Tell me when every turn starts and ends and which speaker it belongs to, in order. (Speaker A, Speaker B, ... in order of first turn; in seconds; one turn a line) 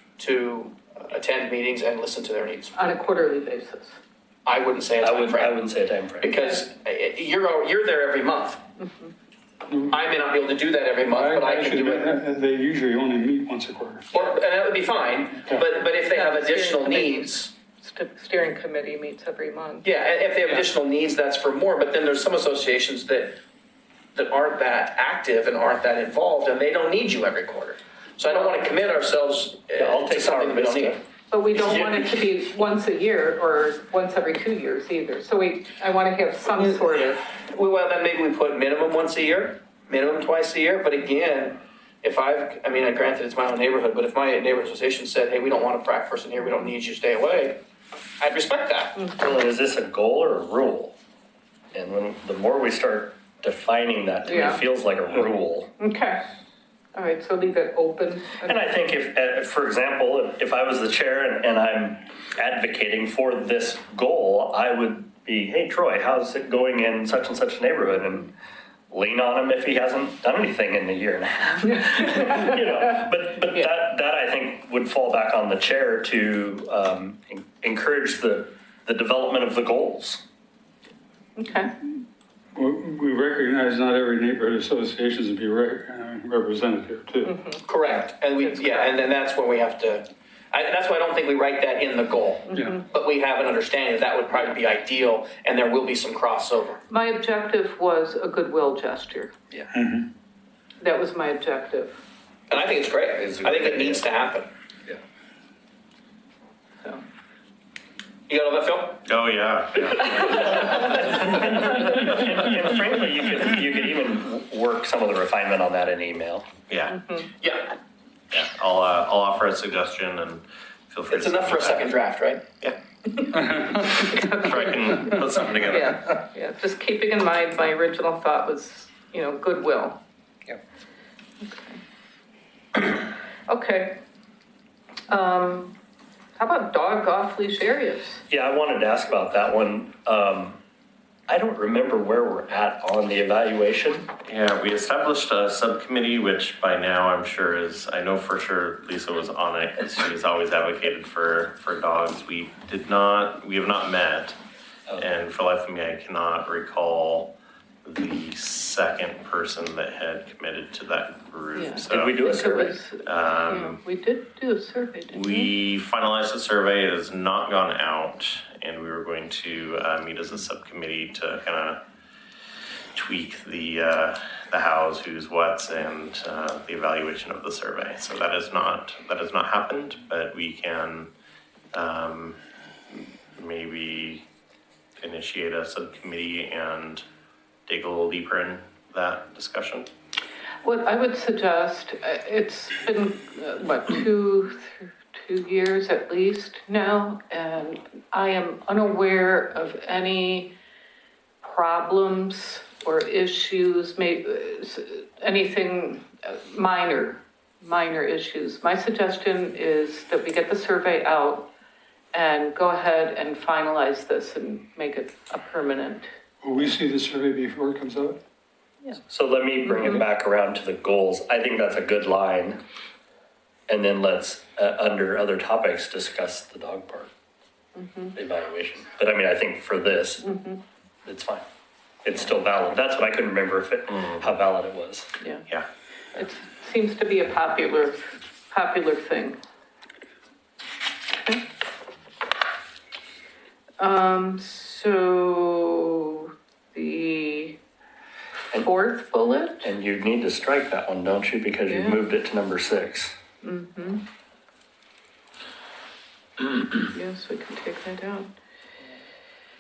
Speaker A: 0.2-2.8
Speaker B: 2.8-4.0
Speaker A: 4.5-5.6
Speaker C: 5.0-6.3
Speaker A: 6.2-8.6
Speaker B: 8.8-9.1
Speaker D: 9.7-10.1
Speaker A: 9.9-12.1
Speaker D: 11.1-14.1
Speaker A: 14.1-17.5
Speaker B: 15.9-19.9
Speaker A: 19.8-23.4
Speaker A: 24.1-31.0
Speaker B: 28.3-28.6
Speaker C: 29.8-31.0
Speaker B: 31.3-37.2
Speaker A: 31.6-32.1
Speaker A: 36.6-47.6
Speaker A: 48.2-49.0
Speaker C: 49.2-51.0
Speaker C: 51.7-55.7
Speaker B: 54.2-54.6
Speaker B: 55.8-56.2
Speaker B: 56.9-58.7
Speaker C: 58.4-68.3
Speaker C: 68.9-80.2
Speaker B: 72.0-72.7
Speaker B: 81.4-81.7
Speaker D: 82.5-87.3
Speaker B: 87.2-87.6
Speaker A: 87.7-96.8
Speaker B: 88.4-88.9
Speaker B: 92.5-92.8
Speaker B: 96.9-99.3
Speaker D: 99.7-100.1
Speaker B: 100.8-102.0
Speaker A: 102.5-104.5
Speaker C: 103.2-104.0
Speaker A: 108.3-109.0
Speaker E: 109.0-110.5
Speaker A: 110.0-110.8
Speaker C: 110.5-116.5
Speaker B: 116.9-117.3
Speaker A: 117.4-117.7
Speaker E: 118.3-121.9
Speaker A: 121.1-122.4
Speaker B: 123.8-130.0
Speaker E: 124.3-126.1
Speaker B: 131.4-131.8
Speaker B: 132.8-134.0
Speaker B: 135.1-135.8
Speaker B: 136.4-138.2
Speaker C: 138.3-140.6
Speaker C: 141.3-144.1
Speaker E: 144.3-154.4
Speaker C: 154.9-155.2
Speaker E: 155.0-162.2
Speaker B: 161.6-165.5
Speaker C: 161.8-162.8
Speaker E: 163.1-163.6
Speaker E: 165.2-171.8
Speaker E: 172.9-181.1
Speaker E: 181.7-182.4
Speaker E: 182.9-184.2
Speaker E: 185.0-187.0
Speaker E: 187.7-189.9
Speaker B: 190.6-200.5
Speaker B: 201.4-211.5
Speaker B: 212.1-216.1
Speaker D: 216.4-218.2
Speaker C: 219.1-222.6
Speaker B: 219.7-220.0
Speaker C: 223.7-227.1
Speaker B: 227.8-228.2
Speaker C: 228.1-230.3
Speaker B: 230.2-230.6
Speaker C: 231.1-231.4
Speaker C: 232.1-235.1
Speaker E: 233.9-234.3
Speaker B: 235.2-235.5
Speaker B: 236.1-239.4
Speaker B: 243.8-247.6
Speaker B: 248.6-249.7
Speaker C: 249.6-253.2
Speaker B: 251.7-252.0
Speaker B: 253.4-254.1
Speaker B: 256.4-258.3